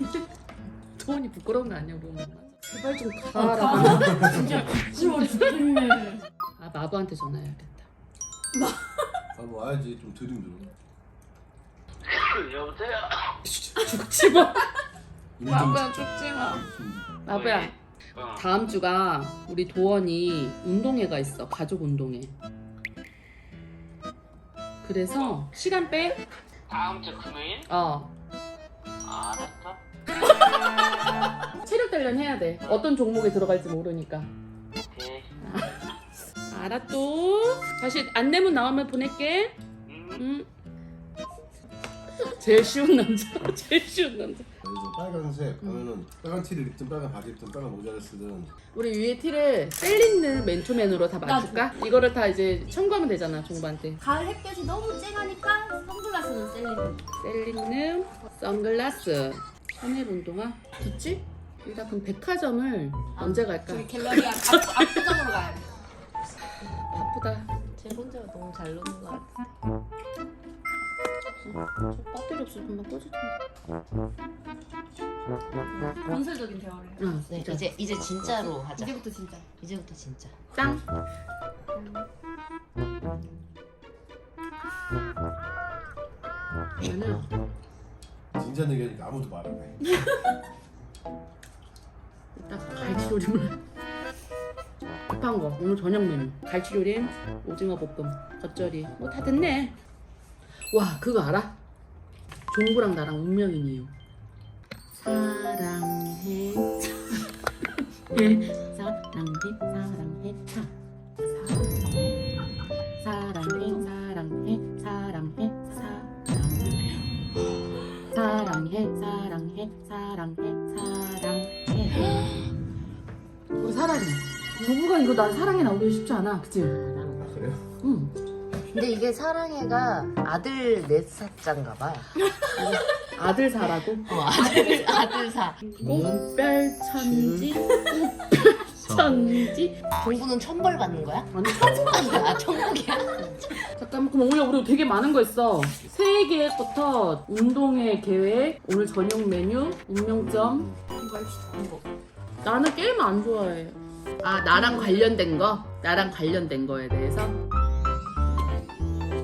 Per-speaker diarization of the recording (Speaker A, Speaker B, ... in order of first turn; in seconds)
Speaker A: 1.0-5.5, 6.6-7.9, 13.4-14.7, 15.5-16.6, 17.2-17.8, 18.3-22.4, 24.8-26.2, 27.7-28.1, 31.6-34.3, 35.4-35.8, 36.5-39.6, 40.2-40.5, 42.2-44.5, 48.7-54.0, 57.2-64.9, 66.6-67.5, 71.4-73.4, 77.0-77.7, 80.5-80.8, 86.8-87.3, 92.3-93.6, 95.1-99.8, 100.7-101.6, 102.5-103.9, 104.9-107.0, 108.1-110.7, 113.0-117.0, 118.1-122.2, 123.6-126.9, 127.8-128.2, 132.6-134.1, 135.8-139.8, 141.3-142.4, 143.8-150.7, 152.4-157.4
Speaker B: 2.8-6.2, 8.5-9.0, 51.2-51.8, 54.0-57.0, 63.2-65.7, 75.7-77.2, 78.3-79.5, 81.7-82.0, 111.3-111.8, 113.4-113.8, 151.0-151.9, 154.5-155.1
Speaker C: 4.0-4.6, 9.3-10.7, 15.4-17.2, 44.6-48.5, 88.4-89.8, 127.2-127.6, 135.8-136.1
Speaker D: 12.1-13.3, 17.3-18.4, 25.1-25.4, 26.7-27.7, 29.1-29.8, 32.6-32.9, 34.8-35.3, 39.9-40.2
Speaker E: 67.8-69.3, 77.3-79.0, 79.6-80.3, 128.7-132.1, 134.1-135.7, 140.0-143.6